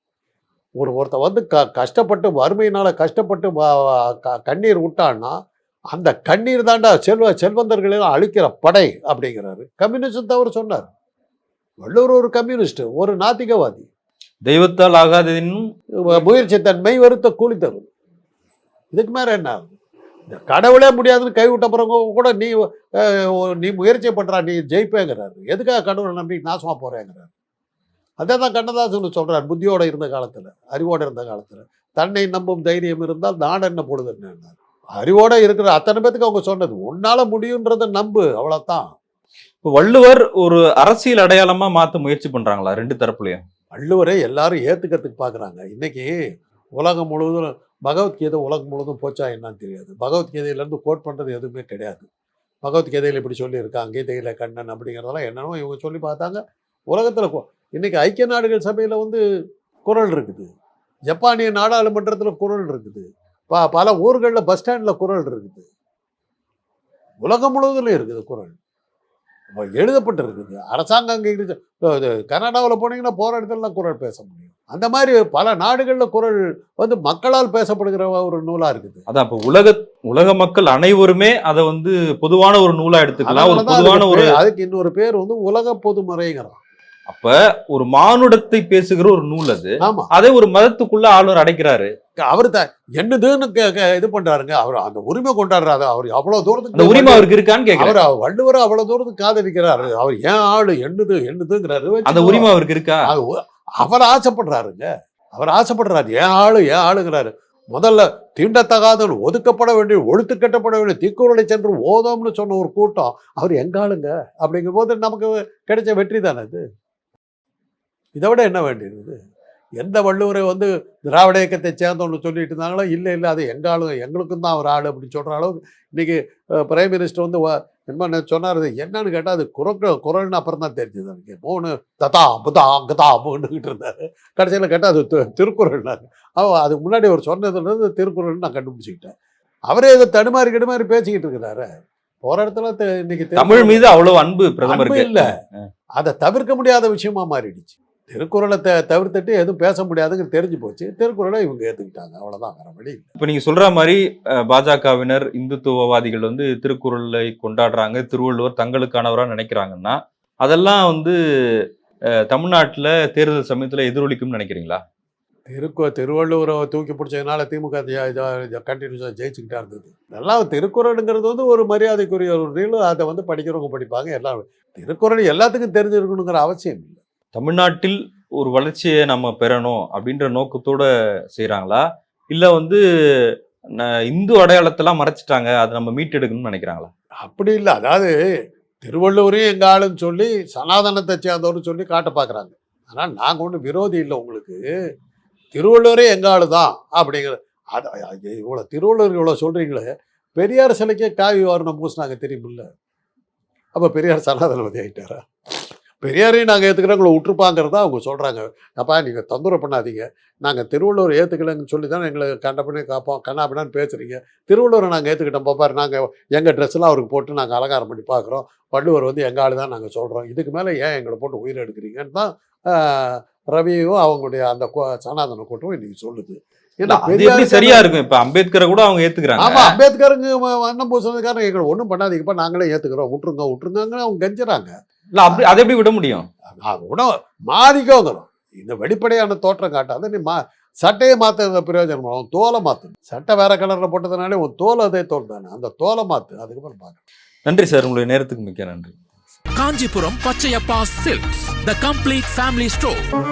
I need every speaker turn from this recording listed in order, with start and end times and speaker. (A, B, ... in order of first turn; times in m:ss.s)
0:00.8-0:05.4 A
0:05.9-0:10.9 A
0:11.8-0:13.9 A
0:14.4-0:15.6 B
0:16.0-0:17.9 A
0:18.9-0:19.7 A
0:20.3-0:27.3 A
0:28.2-0:38.9 A
0:39.6-0:43.4 B
0:43.7-0:46.1 A
0:46.8-0:52.1 A
0:52.6-0:59.2 A
0:59.8-1:00.5 A
1:01.1-1:05.7 A
1:07.2-1:08.6 A
1:09.6-1:19.1 A
1:19.1-1:24.4 B
1:23.2-1:26.6 A
1:27.1-1:31.9 B
1:29.8-1:30.1 A
1:32.3-1:42.5 A
1:36.8-1:38.0 B
1:42.1-1:43.1 B
1:43.0-1:56.6 A
1:58.2-1:59.2 A
1:59.8-2:19.1 A
2:19.7-2:21.7 A
2:22.2-2:24.0 A
2:23.4-2:25.6 B
2:24.7-2:25.3 A
2:26.0-2:33.1 A
2:33.2-2:41.7 B
2:42.3-2:44.8 B
2:45.5-2:57.0 A
2:57.3-3:06.9 B
3:07.2-3:08.1 A
3:08.8-3:14.6 A
3:15.6-3:22.7 A
3:23.8-3:25.2 A
3:26.0-3:47.9 A
3:46.9-3:49.8 B
3:49.4-3:54.7 A
3:55.2-3:56.3 B
3:56.6-4:07.0 A
4:07.4-4:09.0 B
4:09.6-4:13.0 C